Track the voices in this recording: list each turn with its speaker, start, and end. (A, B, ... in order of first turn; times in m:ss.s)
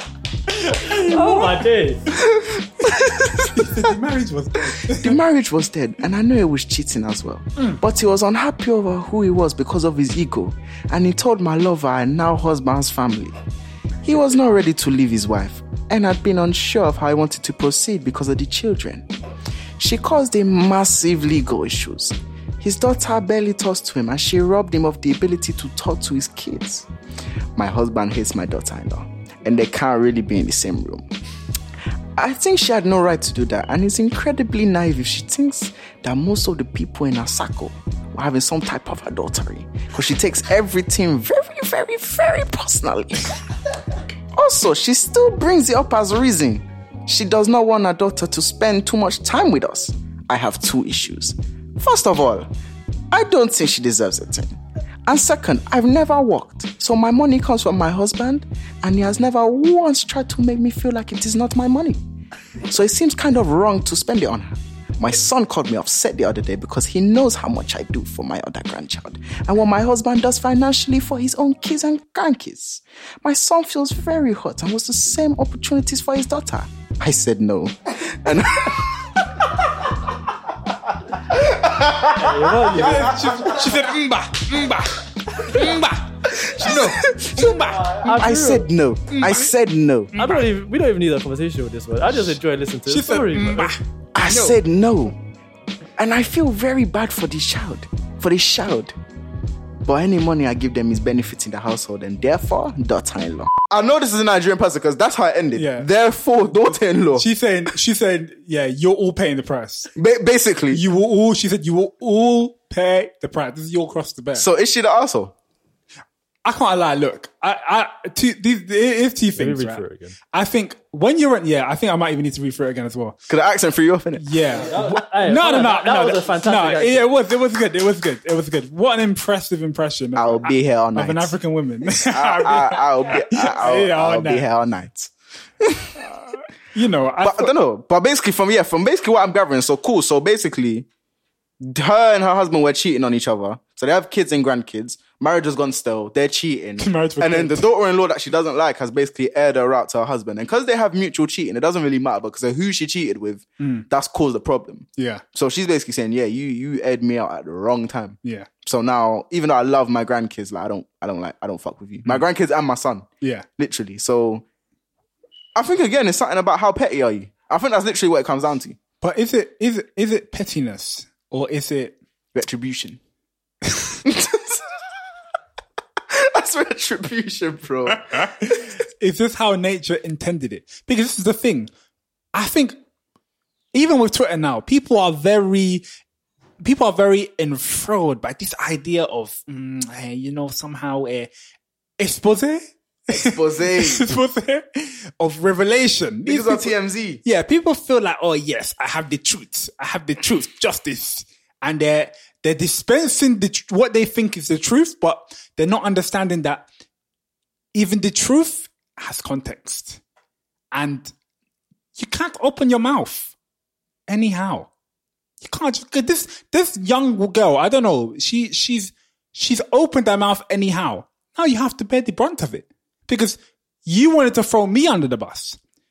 0:00.5-0:01.6 A
0:01.0-0:02.1 B
0:02.2-0:03.9 C
0:02.8-0:05.2 A
0:04.9-0:13.4 C
0:14.0-0:19.1 C
0:19.8-0:26.9 C
0:27.6-0:31.0 C
0:32.2-0:43.4 C
0:44.3-0:52.5 C
0:53.1-1:02.0 C
1:02.6-1:19.3 C
1:21.1-1:24.0 C
1:22.1-1:23.2 B
1:22.6-1:28.1 A
1:25.4-1:25.8 C
1:26.3-1:30.1 C
1:28.0-1:28.7 B
1:29.1-1:29.5 A
1:30.1-1:30.5 A
1:30.2-1:33.8 B
1:32.9-1:34.6 A
1:34.2-1:35.2 C
1:36.0-1:38.9 C
1:39.8-1:47.3 C
1:45.6-1:45.9 A
1:47.2-1:49.9 A
1:50.0-1:50.8 C
1:50.7-1:54.5 A
1:54.4-1:55.3 C
1:56.4-2:03.2 A
1:59.4-2:00.2 B
2:03.3-2:04.3 C
2:04.2-2:14.5 A
2:04.6-2:07.1 B
2:10.2-2:11.3 C
2:12.0-2:16.1 C
2:16.7-2:17.6 A
2:17.2-2:20.9 C
2:21.6-2:44.4 C
2:26.8-2:27.7 A
2:33.6-2:33.9 A
2:35.0-2:35.2 A
2:38.2-2:38.5 A
2:45.6-2:48.8 C
2:49.0-2:52.0 A
2:52.3-2:53.0 C
2:54.0-2:54.6 C
2:56.1-2:58.5 C
2:57.9-3:01.7 A
3:02.3-3:02.8 A
3:03.7-3:05.8 A
3:06.6-3:11.3 A
3:12.0-3:16.7 A
3:13.1-3:14.1 C
3:16.3-3:17.2 C
3:17.2-3:26.7 A
3:27.7-3:30.0 A
3:30.7-3:31.1 A
3:32.0-3:33.3 A
3:34.1-3:34.7 A
3:35.4-3:45.6 A